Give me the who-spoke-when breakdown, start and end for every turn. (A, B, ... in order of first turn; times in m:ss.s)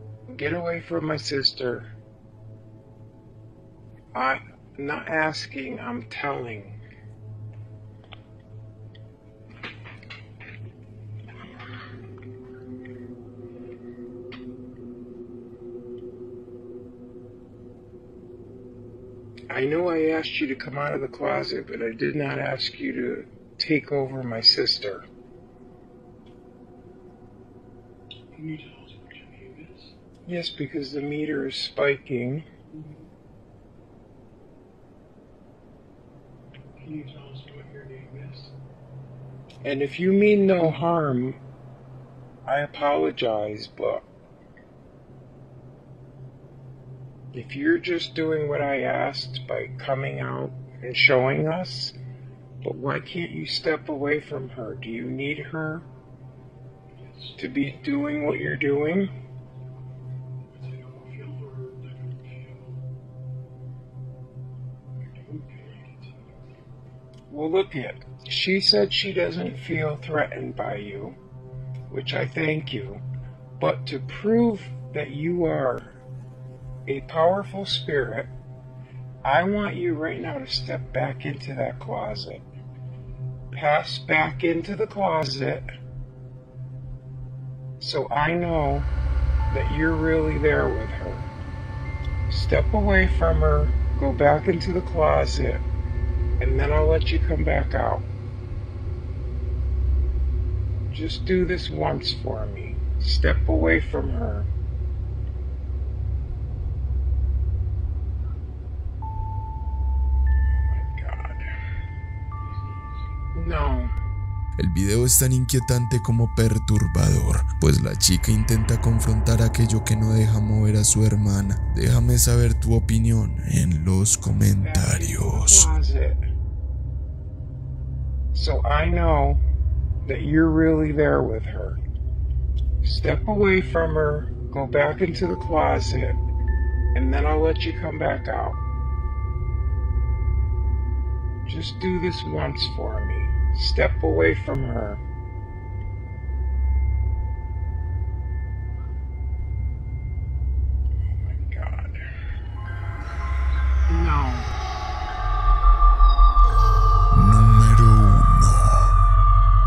0:00.3-0:01.9 A
0:04.2-0:06.8 A
0:19.5-0:25.0 A
0:28.4-0:29.8 B
0:30.2-0:32.5 A
0:36.8-0:38.5 B
0:37.1-0:38.3 A
0:39.6-0:41.4 A
0:42.4-0:44.1 A
0:47.3-0:52.0 A
0:52.6-0:55.8 A
0:57.4-0:59.1 A
1:00.6-1:02.8 B
1:05.3-1:06.1 B
1:07.3-1:11.2 A
1:11.9-1:13.0 A
1:13.6-1:15.9 A
1:16.9-1:18.3 A
1:19.2-1:22.4 A
1:23.5-1:25.6 A
1:27.8-1:28.9 A
1:29.5-1:31.3 A
1:32.3-1:35.6 A
1:36.4-1:38.0 A
1:40.9-1:44.5 A
1:50.6-1:51.5 A
1:53.3-1:53.9 A
1:54.6-2:05.7 C
2:04.6-2:06.2 A
2:08.3-2:09.4 A
2:10.0-2:11.8 A
2:12.8-2:16.2 A
2:17.0-2:18.6 A
2:21.5-2:25.0 A
2:31.1-2:32.0 A
2:33.9-2:34.5 A
2:37.1-2:39.0 C